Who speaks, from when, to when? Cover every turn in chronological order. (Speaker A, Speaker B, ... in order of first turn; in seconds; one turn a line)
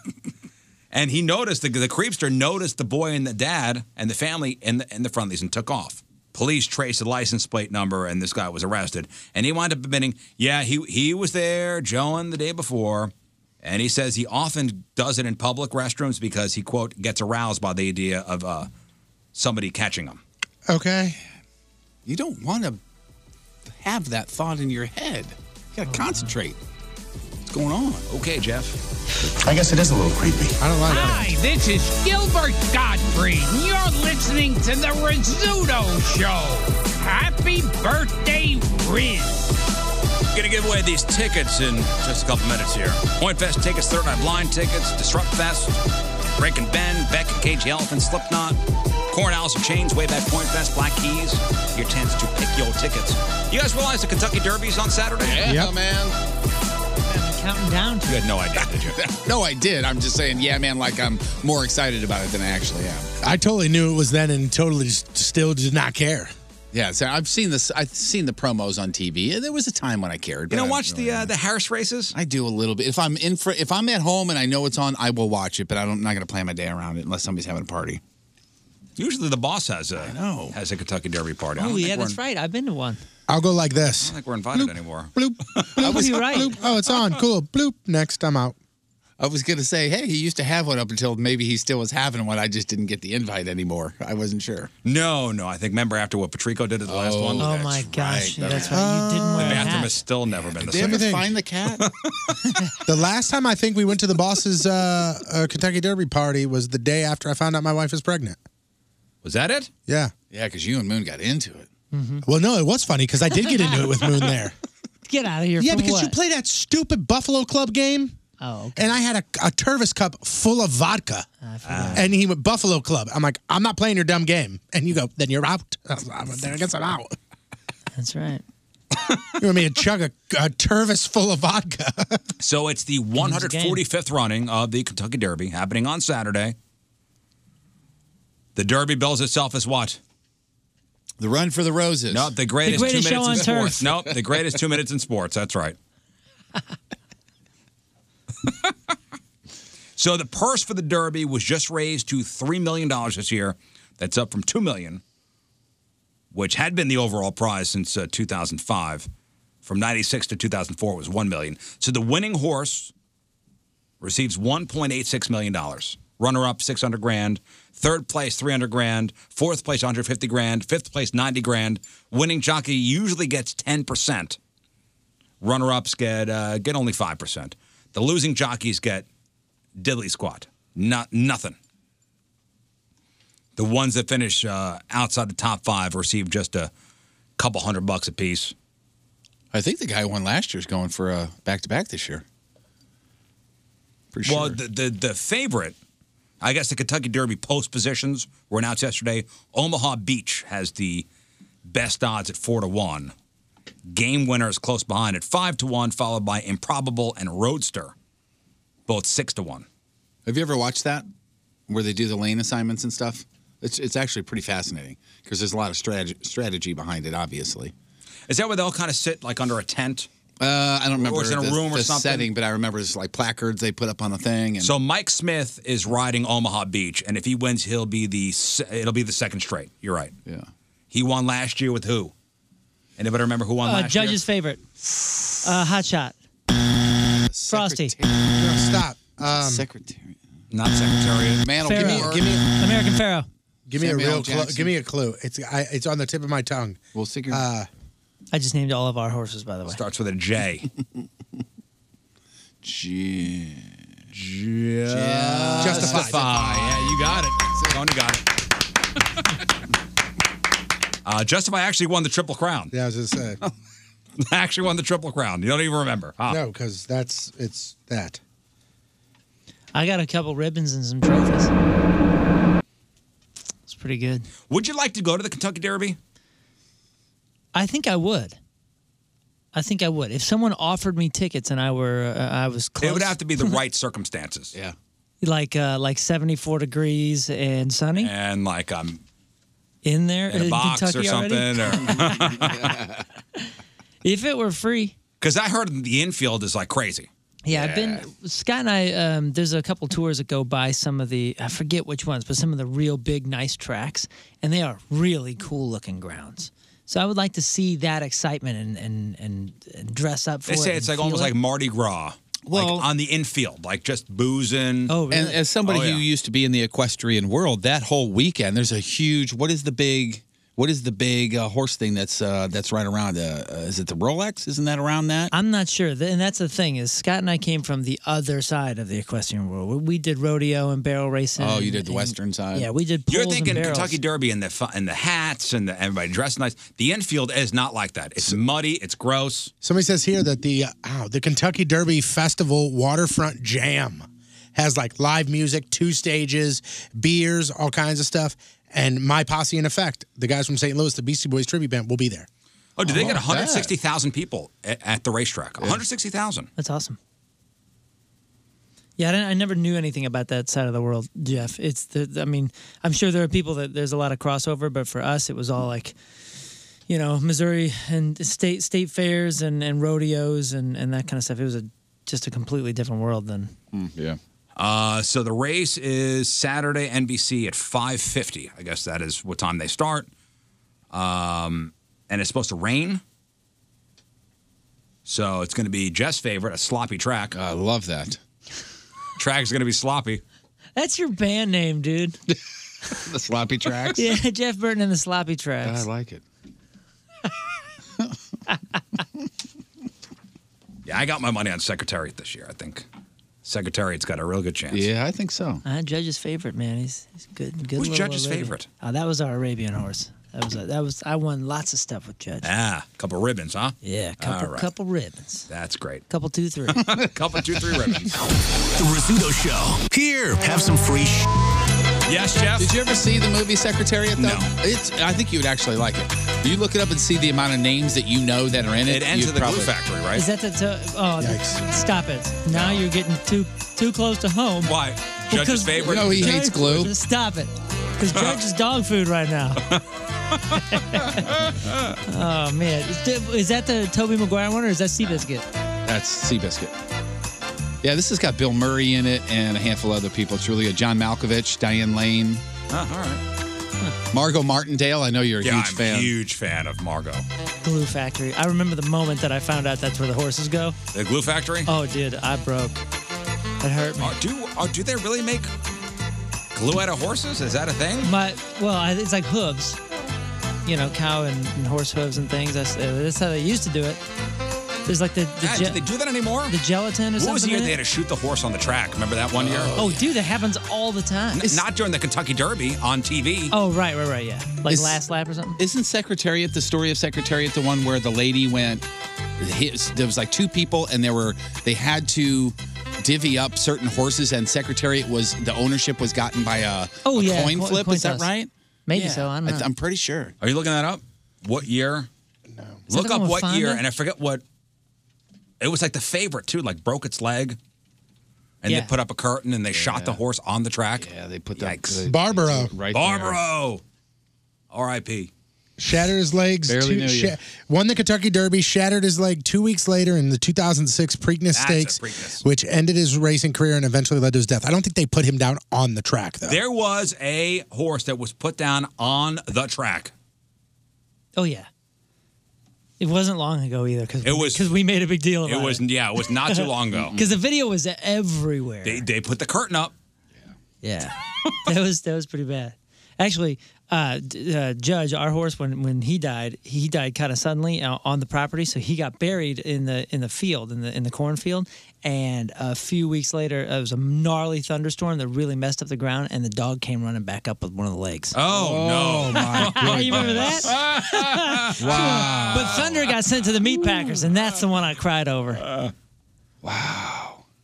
Speaker A: 0.9-18.7
Speaker A: 19.3-20.2
Speaker B: 20.7-21.2
Speaker C: 22.1-22.8
Speaker C: 23.7-26.6
Speaker D: 25.9-26.3
Speaker C: 27.5-28.0
Speaker A: 28.1-28.8
Speaker C: 29.5-30.1
Speaker E: 30.0-30.5
Speaker B: 30.6-31.3
Speaker F: 30.8-39.5
Speaker A: 40.3-45.8
Speaker A: 46.4-48.6
Speaker A: 49.1-55.5
Speaker C: 55.2-56.1
Speaker B: 55.4-55.7
Speaker D: 57.1-58.2
Speaker A: 58.1-59.0
Speaker C: 58.6-63.1
Speaker B: 63.2-66.3
Speaker C: 66.7-71.3
Speaker A: 70.5-72.1
Speaker C: 72.1-78.0
Speaker A: 79.0-82.2
Speaker C: 80.0-80.5
Speaker D: 81.6-83.0
Speaker B: 83.3-88.5
Speaker A: 84.0-85.9
Speaker D: 85.8-86.6
Speaker C: 89.2-94.7
Speaker A: 94.8-97.7
Speaker C: 96.8-98.8
Speaker D: 97.4-100.0
Speaker B: 98.6-99.7
Speaker A: 99.4-101.1
Speaker C: 100.5-101.8
Speaker B: 100.7-101.3
Speaker A: 101.8-102.3
Speaker B: 102.8-108.4
Speaker A: 109.2-109.7
Speaker B: 109.9-110.1
Speaker C: 110.3-111.7
Speaker D: 111.9-112.2
Speaker B: 112.2-114.5
Speaker D: 115.0-116.1
Speaker B: 115.6-118.1
Speaker D: 118.4-119.0
Speaker B: 118.8-121.2
Speaker D: 121.4-122.1
Speaker A: 121.7-122.0
Speaker B: 121.9-127.1
Speaker D: 127.9-128.4
Speaker B: 129.4-132.2
Speaker A: 132.4-136.6
Speaker D: 133.2-133.8
Speaker A: 138.5-140.0
Speaker C: 141.2-144.4
Speaker A: 142.1-145.8
Speaker D: 142.6-143.8
Speaker A: 150.0-155.0
Speaker A: 156.3-159.1
Speaker A: 159.6-162.9
Speaker A: 164.0-174.4
Speaker A: 175.4-179.1
Speaker A: 179.8-181.6
Speaker A: 183.6-186.7
Speaker A: 187.4-188.5
Speaker C: 189.5-192.2
Speaker C: 194.1-194.6
Speaker A: 194.2-195.8
Speaker A: 196.4-201.1
Speaker A: 201.7-203.1
Speaker A: 203.9-207.9
Speaker A: 208.9-209.7
Speaker C: 210.2-211.1
Speaker C: 211.7-217.7
Speaker A: 218.3-220.1
Speaker C: 220.4-224.7
Speaker A: 221.0-222.3
Speaker A: 224.6-230.1
Speaker A: 230.9-232.1
Speaker A: 233.0-234.2
Speaker D: 233.6-234.6
Speaker D: 235.4-236.2
Speaker C: 237.3-238.5
Speaker D: 237.5-237.9
Speaker B: 238.3-239.7
Speaker C: 239.2-240.2
Speaker A: 240.5-241.4
Speaker C: 241.4-242.3
Speaker D: 241.6-243.3
Speaker B: 241.7-242.4
Speaker B: 243.7-247.7
Speaker C: 243.8-244.7
Speaker C: 246.9-247.4
Speaker D: 248.3-249.8
Speaker A: 249.7-250.7
Speaker C: 252.6-253.7
Speaker A: 254.1-258.3
Speaker C: 254.8-257.8
Speaker B: 255.6-256.2
Speaker A: 261.0-262.7
Speaker B: 262.7-263.4
Speaker A: 264.2-266.4
Speaker B: 266.3-268.2
Speaker D: 269.7-271.5
Speaker D: 273.7-274.3
Speaker A: 274.5-276.0
Speaker D: 277.5-278.4
Speaker D: 279.5-283.6
Speaker A: 282.8-284.5
Speaker D: 285.2-288.1
Speaker A: 288.0-289.0
Speaker D: 289.8-292.0
Speaker A: 290.3-292.8
Speaker C: 291.8-293.0
Speaker D: 294.0-295.0
Speaker A: 295.2-297.1
Speaker D: 297.4-311.3
Speaker C: 297.5-298.1
Speaker A: 310.5-314.9
Speaker C: 312.4-312.9
Speaker D: 314.9-315.4
Speaker C: 315.1-325.3
Speaker A: 315.6-316.0
Speaker D: 325.3-334.0
Speaker C: 331.4-332.7
Speaker A: 333.1-339.5
Speaker B: 339.6-352.3
Speaker A: 352.8-356.5
Speaker C: 352.8-353.7
Speaker D: 356.6-357.0
Speaker D: 359.0-365.9
Speaker D: 366.9-373.5
Speaker C: 373.7-374.2
Speaker A: 374.6-380.1
Speaker A: 380.9-383.0
Speaker A: 385.1-387.3
Speaker C: 387.3-388.2
Speaker A: 389.2-390.2
Speaker D: 390.8-392.2
Speaker C: 392.9-394.1
Speaker D: 393.9-395.9
Speaker C: 395.6-396.2
Speaker A: 400.8-402.9
Speaker A: 403.4-404.9
Speaker C: 404.7-405.6
Speaker D: 405.6-412.5
Speaker A: 407.8-408.7
Speaker A: 412.4-414.7
Speaker D: 413.8-415.5
Speaker A: 415.5-416.0
Speaker D: 416.1-416.9
Speaker A: 416.8-418.1
Speaker C: 416.8-417.1
Speaker E: 418.7-421.3
Speaker A: 422.1-422.7
Speaker C: 422.6-429.7
Speaker A: 424.2-424.5
Speaker A: 428.9-430.2
Speaker D: 430.1-434.7
Speaker B: 431.2-431.6
Speaker A: 432.5-432.8
Speaker A: 434.6-436.4
Speaker D: 435.3-439.6
Speaker C: 435.8-436.9
Speaker D: 440.7-441.4
Speaker A: 441.4-441.9
Speaker D: 442.0-445.4
Speaker C: 445.8-446.7
Speaker C: 447.8-452.4
Speaker A: 452.7-453.2
Speaker C: 454.1-456.1
Speaker A: 455.4-457.2
Speaker D: 457.6-460.8
Speaker A: 460.9-461.7
Speaker D: 461.6-462.8
Speaker D: 463.6-464.1
Speaker A: 464.0-465.5
Speaker A: 466.5-468.1
Speaker D: 468.0-469.8
Speaker D: 470.6-474.0
Speaker D: 474.9-475.8
Speaker A: 475.4-476.5
Speaker D: 476.5-477.8
Speaker A: 477.2-479.8
Speaker C: 479.3-480.0
Speaker D: 479.8-481.4
Speaker A: 481.3-483.5
Speaker D: 483.5-485.6
Speaker C: 484.7-485.0
Speaker C: 485.6-488.9
Speaker C: 489.4-500.3
Speaker D: 497.0-498.3
Speaker D: 498.9-499.7
Speaker A: 500.4-502.1
Speaker B: 502.5-502.8
Speaker A: 502.9-504.4
Speaker D: 502.9-503.8
Speaker A: 505.6-507.6
Speaker A: 508.6-512.0
Speaker C: 509.7-510.2
Speaker C: 511.0-513.4
Speaker B: 512.0-512.7
Speaker A: 512.9-513.8
Speaker A: 514.7-515.3
Speaker B: 515.8-526.6
Speaker C: 516.7-517.3
Speaker A: 521.5-522.4
Speaker A: 526.5-530.1
Speaker D: 531.4-531.7
Speaker D: 533.0-535.8
Speaker A: 534.2-534.6
Speaker A: 535.4-537.2
Speaker D: 536.5-539.0
Speaker C: 536.9-537.3
Speaker A: 538.8-539.9
Speaker D: 540.8-558.3
Speaker A: 558.3-562.9
Speaker C: 558.5-560.8
Speaker D: 559.3-565.6
Speaker C: 561.8-563.1
Speaker A: 565.6-565.9
Speaker C: 566.6-567.4